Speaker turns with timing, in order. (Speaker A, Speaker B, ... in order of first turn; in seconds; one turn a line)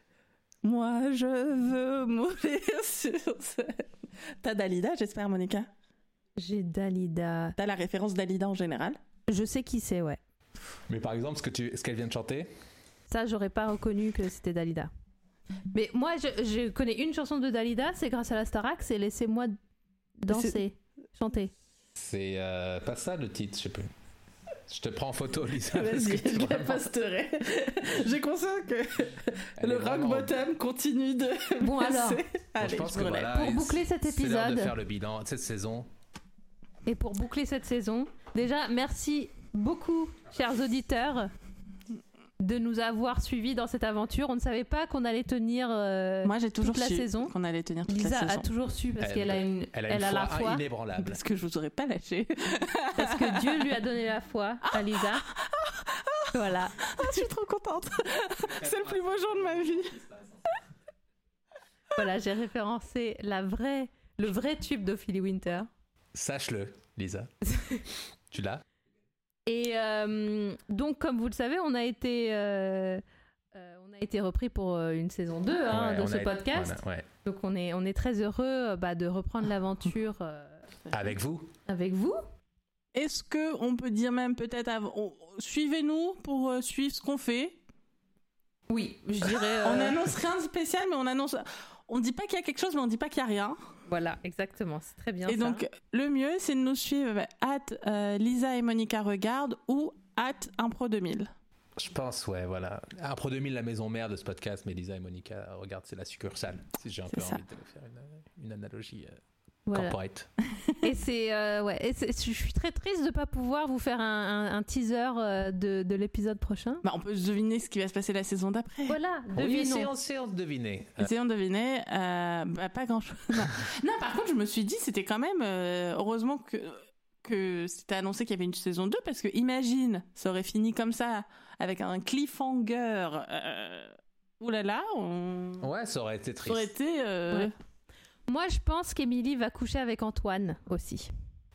Speaker A: 0.6-5.7
Speaker B: 6.4-7.6
Speaker A: 7.6-9.0
Speaker B: 9.3-10.2
Speaker C: 10.9-12.5
Speaker B: 13.1-14.9
Speaker B: 15.7-19.5
Speaker B: 20.2-21.5
Speaker A: 20.3-20.6
Speaker C: 22.0-23.9
Speaker C: 24.7-26.9
Speaker A: 25.7-33.4
Speaker C: 29.6-30.4
Speaker B: 31.6-32.2
Speaker C: 32.6-35.9
Speaker B: 33.2-34.7
Speaker B: 36.9-41.3
Speaker B: 42.4-47.3
Speaker A: 46.2-48.5
Speaker B: 47.9-50.6
Speaker C: 49.0-51.2
Speaker A: 51.0-53.7
Speaker B: 53.0-55.3
Speaker A: 54.9-60.1
Speaker B: 56.3-57.3
Speaker B: 62.0-65.7
Speaker C: 66.1-67.3
Speaker B: 67.5-67.8
Speaker C: 68.3-68.6
Speaker B: 69.5-73.0
Speaker B: 73.5-80.7
Speaker C: 75.7-77.1
Speaker C: 80.9-81.5
Speaker B: 81.7-82.2
Speaker A: 82.9-87.6
Speaker B: 88.7-90.0
Speaker A: 89.3-93.6
Speaker B: 93.9-95.6
Speaker A: 95.3-101.3
Speaker C: 101.8-109.2
Speaker A: 107.1-107.4
Speaker B: 109.7-110.0
Speaker C: 109.7-110.3
Speaker A: 110.4-110.9
Speaker B: 110.8-116.8
Speaker A: 116.8-119.0
Speaker B: 118.9-119.9
Speaker C: 119.3-121.1
Speaker A: 121.0-135.7
Speaker C: 135.6-136.7
Speaker A: 136.5-137.5
Speaker B: 138.3-141.1